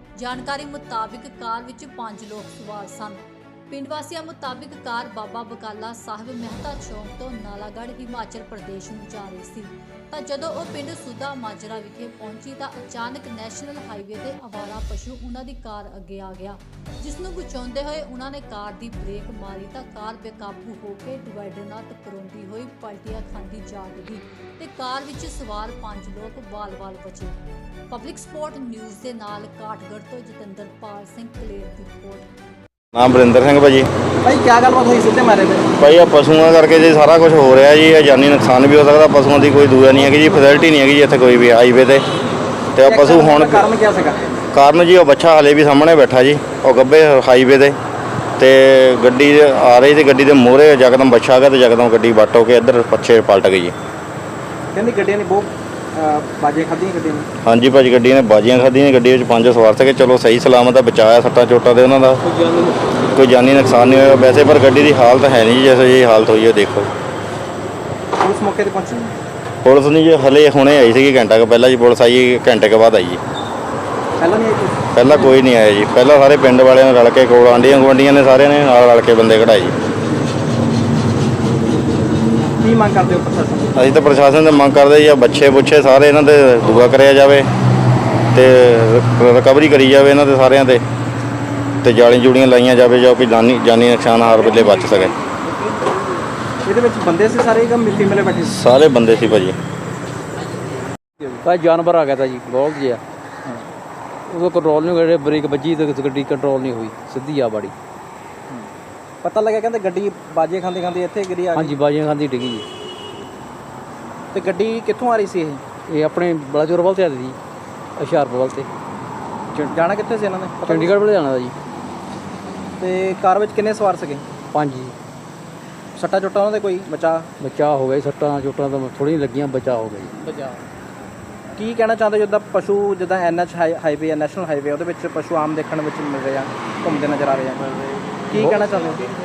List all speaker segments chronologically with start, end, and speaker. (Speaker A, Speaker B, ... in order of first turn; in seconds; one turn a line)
Speaker A: 0.2-27.4
Speaker A: 27.9-32.3
Speaker B: 32.9-33.9
Speaker C: 34.2-35.7
Speaker B: 35.8-42.0
Speaker B: 42.7-43.6
Speaker C: 42.9-44.3
Speaker B: 44.5-47.8
Speaker B: 48.4-53.7
Speaker C: 54.7-57.3
Speaker B: 57.4-62.2
Speaker B: 63.1-66.9
Speaker C: 68.2-69.1
Speaker B: 69.6-73.2
Speaker C: 74.2-74.8
Speaker B: 74.9-79.7
Speaker C: 82.6-83.7
Speaker B: 83.8-87.5
Speaker B: 88.3-90.8
Speaker B: 91.8-95.1
Speaker C: 96.7-98.5
Speaker B: 98.5-99.6
Speaker D: 101.4-103.0
Speaker D: 104.3-107.7
Speaker C: 109.2-111.8
Speaker D: 111.5-112.6
Speaker C: 114.3-115.6
Speaker D: 115.9-117.3
Speaker D: 118.0-118.7
Speaker C: 119.6-121.0
Speaker D: 120.6-121.5
Speaker C: 122.8-124.2
Speaker D: 124.5-124.9
Speaker C: 126.0-127.3
Speaker D: 127.4-130.1
Speaker C: 130.2-130.6
Speaker C: 131.6-137.6
Speaker C: 138.3-139.1